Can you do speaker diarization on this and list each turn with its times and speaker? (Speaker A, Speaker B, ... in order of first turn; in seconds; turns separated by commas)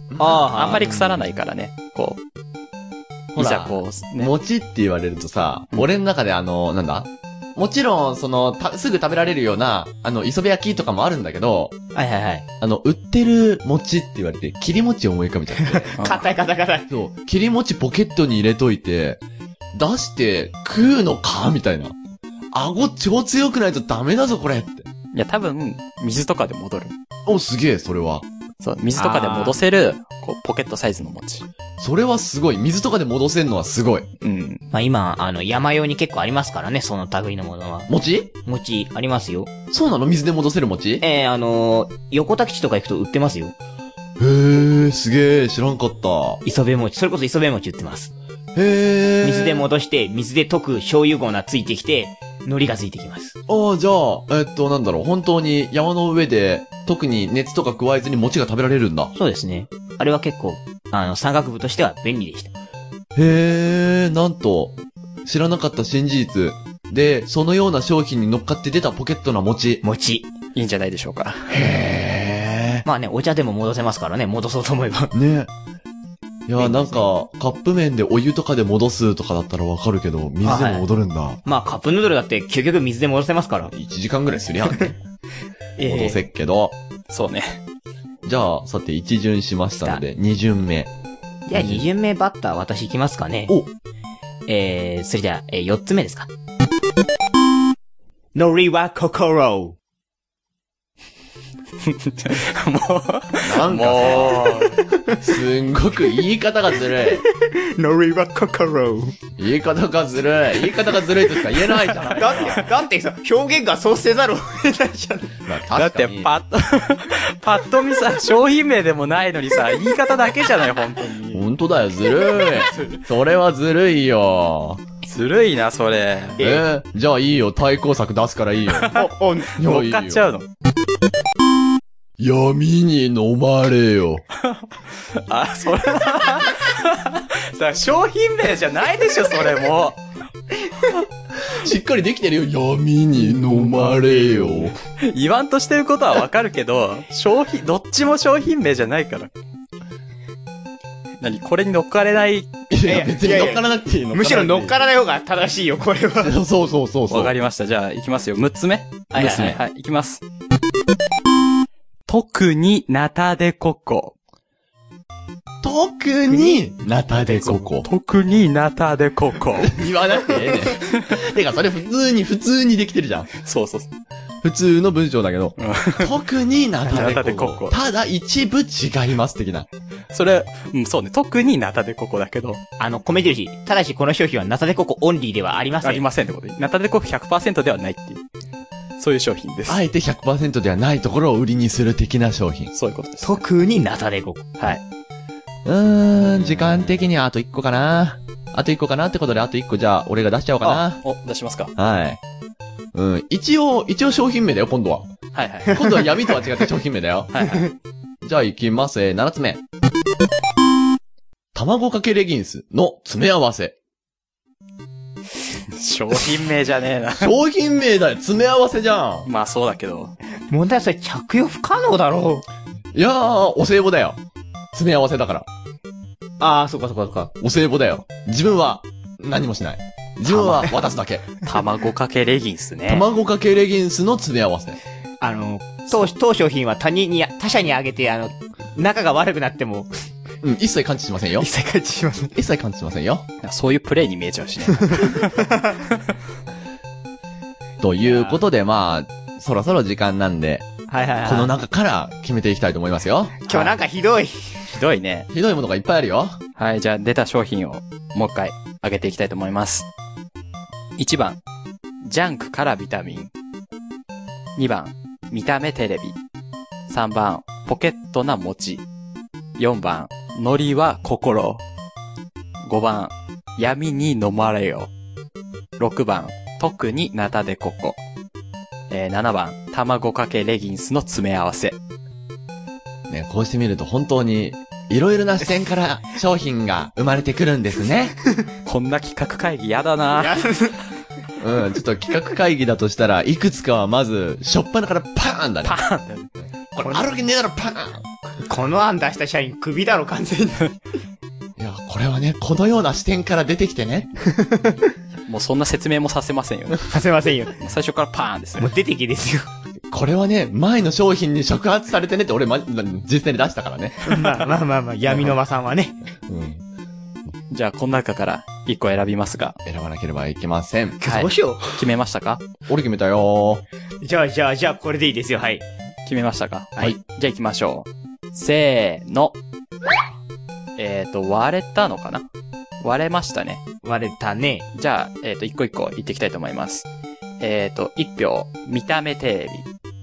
Speaker A: 0.1-1.2, Speaker B: 0.2-0.9, Speaker C: 0.5-2.2, Speaker A: 3.3-11.8, Speaker C: 3.4-4.3, Speaker B: 11.9-12.4, Speaker A: 12.6-15.9, Speaker B: 15.6-16.9, Speaker C: 16.0-16.2, Speaker A: 16.9-19.2, Speaker A: 19.7-21.9, Speaker A: 22.5-24.9, Speaker C: 25.1-26.9, Speaker A: 27.2-28.2, Speaker C: 28.6-31.4, Speaker B: 28.9-29.6, Speaker A: 31.8-34.1, Speaker C: 34.2-34.6, Speaker B: 34.7-37.9, Speaker A: 37.9-38.3, Speaker B: 38.5-39.5, Speaker A: 39.7-41.0, Speaker B: 41.0-43.5, Speaker A: 44.2-46.4, Speaker B: 46.4-48.1, Speaker A: 48.5-49.6, Speaker B: 49.2-53.3, Speaker A: 53.5-59.1, Speaker B: 59.1-62.5, Speaker A: 63.1-69.8, Speaker B: 69.8-70.3, Speaker C: 70.5-71.5, Speaker A: 71.5-72.8, Speaker B: 72.8-75.1, Speaker A: 75.1-75.5, Speaker A: 76.5-81.4, Speaker B: 76.6-77.0, Speaker B: 80.4-80.8, Speaker B: 81.4-83.7, Speaker A: 83.7-85.0, Speaker B: 85.8-86.2, Speaker A: 85.8-86.8, Speaker C: 87.1-87.6, Speaker A: 88.2-90.9, Speaker B: 91.5-93.5, Speaker A: 91.5-91.8, Speaker B: 94.5-96.3, Speaker B: 98.3-99.8, Speaker C: 101.8-104.8, Speaker A: 103.4-104.6, Speaker B: 104.9-105.2, Speaker A: 105.1-107.2, Speaker B: 107.0-109.2, Speaker A: 109.4-112.7, Speaker C: 111.6-112.6, Speaker B: 112.2-115.3, Speaker A: 115.5-116.3, Speaker C: 115.7-121.5, Speaker A: 121.3-124.8, Speaker C: 122.6-123.0, Speaker C: 125.1-126.5, Speaker A: 126.4-128.9, Speaker C: 128.7-130.5, Speaker B: 128.9-129.5, Speaker A: 129.6-130.3, Speaker A: 132.2-134.2, Speaker C: 134.4-140.0, Speaker A: 141.4-144.8, Speaker B: 143.7-144.6, Speaker C: 145.0-149.3, Speaker C: 151.2-152.5, Speaker A: 152.7-154.8, Speaker B: 152.8-156.3, Speaker A: 156.2-157.3, Speaker C: 157.1-160.2, Speaker B: 159.1-159.6, Speaker C: 162.1-164.1, Speaker A: 165.6-167.9, Speaker B: 166.3-166.6, Speaker C: 167.4-169.8, Speaker A: 169.6-173.3, Speaker C: 173.3-173.9, Speaker A: 174.4-179.7, Speaker C: 175.6-176.1, Speaker C: 176.9-177.7, Speaker C: 180.1-182.6, Speaker B: 182.8-186.0, Speaker C: 185.8-188.2, Speaker C: 189.0-189.8, Speaker A: 189.7-192.7, Speaker C: 192.7-193.4, Speaker B: 193.2-194.5, Speaker A: 195.6-201.0, Speaker C: 196.2-196.9, Speaker C: 200.6-201.7, Speaker A: 201.8-202.2, Speaker A: 202.9-205.1, Speaker C: 205.3-205.8, Speaker A: 205.7-207.3, Speaker C: 207.3-207.7, Speaker A: 208.2-209.6, Speaker A: 211.5-213.7, Speaker C: 215.7-217.3, Speaker A: 217.2-219.3, Speaker C: 219.3-220.1, Speaker B: 220.5-222.4, Speaker A: 222.9-224.2, Speaker A: 224.7-225.5, Speaker B: 226.4-227.3, Speaker A: 227.4-231.3, Speaker B: 230.2-230.7, Speaker C: 231.4-233.1, Speaker A: 232.8-234.8, Speaker B: 235.2-239.9, Speaker A: 240.4-241.5, Speaker B: 241.4-242.3, Speaker A: 242.3-243.2, Speaker C: 243.4-245.4, Speaker B: 244.9-245.8, Speaker A: 247.8-250.7, Speaker B: 250.9-251.5, Speaker A: 251.2-253.4, Speaker B: 253.4-254.8, Speaker C: 253.5-253.7, Speaker C: 254.7-255.3, Speaker A: 255.3-256.4, Speaker C: 256.6-259.9, Speaker C: 261.0-261.4, Speaker C: 262.0-263.3, Speaker C: 264.6-266.2, Speaker C: 266.9-268.8, Speaker C: 269.6-271.6, Speaker C: 272.6-274.9, Speaker C: 275.8-278.0, Speaker C: 278.9-281.8, Speaker A: 283.1-288.1, Speaker C: 288.6-290.5, Speaker B: 290.2-290.8, Speaker A: 291.4-295.8, Speaker C: 295.6-296.3, Speaker A: 296.7-298.1, Speaker B: 298.4-300.7, Speaker A: 301.6-304.1, Speaker B: 304.2-304.9, Speaker C: 305.3-307.0, Speaker B: 306.9-307.6, Speaker C: 307.6-308.7, Speaker B: 308.6-309.5, Speaker A: 309.9-314.1, Speaker B: 314.0-316.0, Speaker A: 316.3-316.6, Speaker C: 317.5-319.6, Speaker A: 319.6-321.0, Speaker B: 321.0-321.8, Speaker C: 321.0-322.4, Speaker A: 322.7-323.6, Speaker B: 324.0-325.6, Speaker C: 326.1-329.4, Speaker C: 330.8-332.2, Speaker C: 332.8-333.6, Speaker B: 333.8-334.7, Speaker C: 334.8-336.9, Speaker C: 337.4-339.6